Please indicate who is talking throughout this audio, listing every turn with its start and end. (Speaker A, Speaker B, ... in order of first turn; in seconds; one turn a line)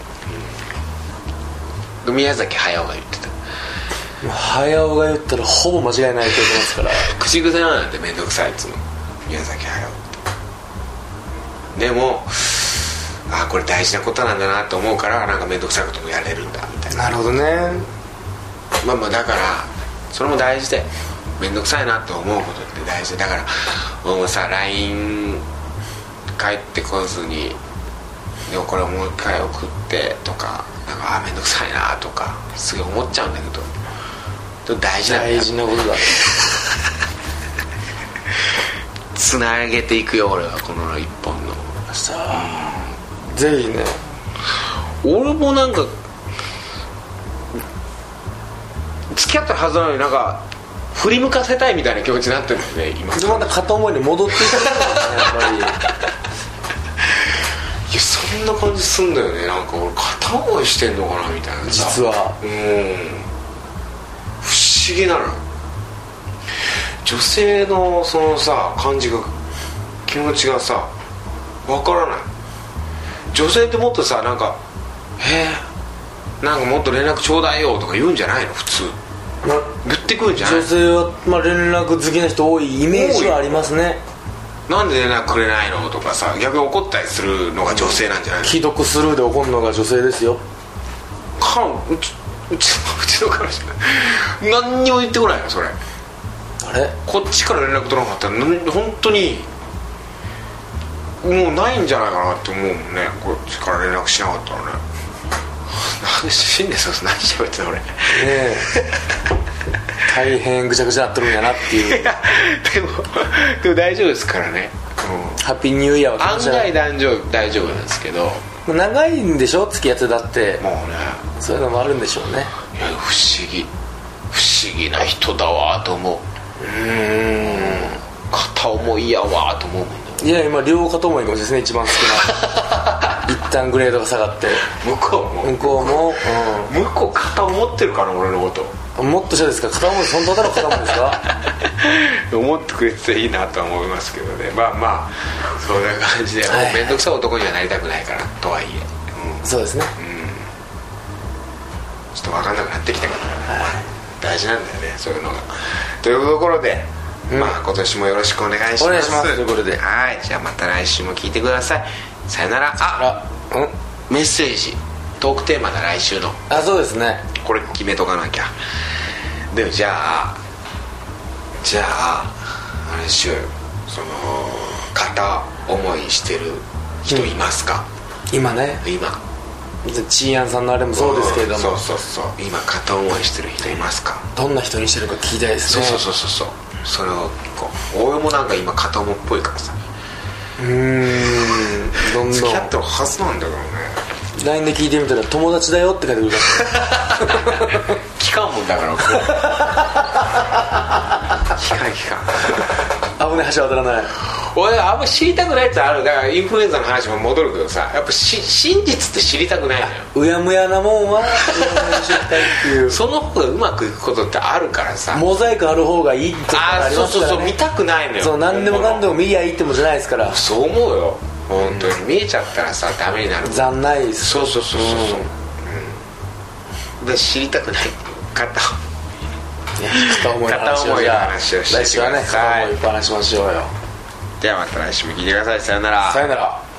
Speaker A: 2.0-3.3
Speaker B: 4.2-7.1
Speaker A: 7.0-10.2
Speaker A: 11.8-17.1
Speaker B: 16.9-17.9
Speaker A: 18.8-25.4
Speaker A: 26.4-27.6
Speaker A: 28.5-33.7
Speaker A: 34.6-35.5
Speaker B: 35.1-36.2
Speaker A: 39.1-41.7
Speaker B: 41.9-42.7
Speaker A: 42.3-42.9
Speaker B: 43.3-44.0
Speaker A: 45.0-45.9
Speaker A: 49.1-53.5
Speaker B: 53.1-55.8
Speaker A: 54.6-55.4
Speaker A: 57.9-63.3
Speaker B: 61.6-62.4
Speaker A: 64.4-65.4
Speaker A: 67.0-69.3
Speaker A: 70.1-70.9
Speaker A: 71.6-72.3
Speaker A: 73.3-74.6
Speaker A: 75.2-75.7
Speaker A: 76.4-79.0
Speaker B: 79.4-79.8
Speaker A: 79.8-80.7
Speaker B: 80.4-84.0
Speaker A: 82.9-83.5
Speaker A: 84.7-88.5
Speaker B: 87.7-90.4
Speaker A: 91.4-95.8
Speaker B: 96.6-97.0
Speaker A: 97.1-99.5
Speaker A: 101.2-104.8
Speaker A: 105.7-109.0
Speaker B: 108.1-108.7
Speaker B: 110.0-112.0
Speaker A: 111.6-115.4
Speaker B: 115.4-116.7
Speaker A: 116.2-118.5
Speaker B: 118.7-120.6
Speaker A: 120.6-121.2
Speaker B: 121.4-122.5
Speaker A: 122.7-123.7
Speaker A: 124.3-126.2
Speaker B: 126.6-128.0
Speaker A: 127.2-130.2
Speaker B: 130.2-132.4
Speaker A: 132.4-133.0
Speaker B: 133.2-134.7
Speaker A: 134.7-138.8
Speaker B: 135.4-136.8
Speaker B: 139.0-141.2
Speaker A: 141.6-149.4
Speaker B: 146.5-147.0
Speaker B: 149.4-149.9
Speaker A: 150.0-150.5
Speaker A: 152.1-163.1
Speaker B: 153.5-153.8
Speaker B: 157.3-157.6
Speaker B: 158.8-159.8
Speaker B: 162.8-163.7
Speaker A: 164.1-166.4
Speaker B: 166.5-167.3
Speaker A: 167.4-168.5
Speaker A: 169.5-170.4
Speaker A: 171.6-177.9
Speaker B: 178.3-178.8
Speaker A: 178.8-179.2
Speaker B: 179.8-181.8
Speaker A: 180.9-184.2
Speaker B: 184.3-186.1
Speaker A: 185.7-189.8
Speaker B: 190.6-192.7
Speaker A: 192.0-194.0
Speaker B: 194.3-197.9
Speaker A: 196.6-199.8
Speaker B: 199.2-199.7
Speaker A: 201.5-202.6
Speaker B: 203.2-204.1
Speaker A: 204.2-210.1
Speaker B: 210.1-213.0
Speaker A: 211.3-215.3
Speaker B: 215.1-217.6
Speaker A: 216.5-219.2
Speaker B: 218.2-220.4
Speaker A: 220.2-223.7
Speaker B: 221.6-221.9
Speaker B: 223.4-225.3
Speaker A: 224.2-226.0
Speaker A: 227.0-228.8
Speaker B: 229.8-233.7
Speaker A: 230.0-232.7
Speaker A: 234.4-236.3
Speaker B: 236.1-236.6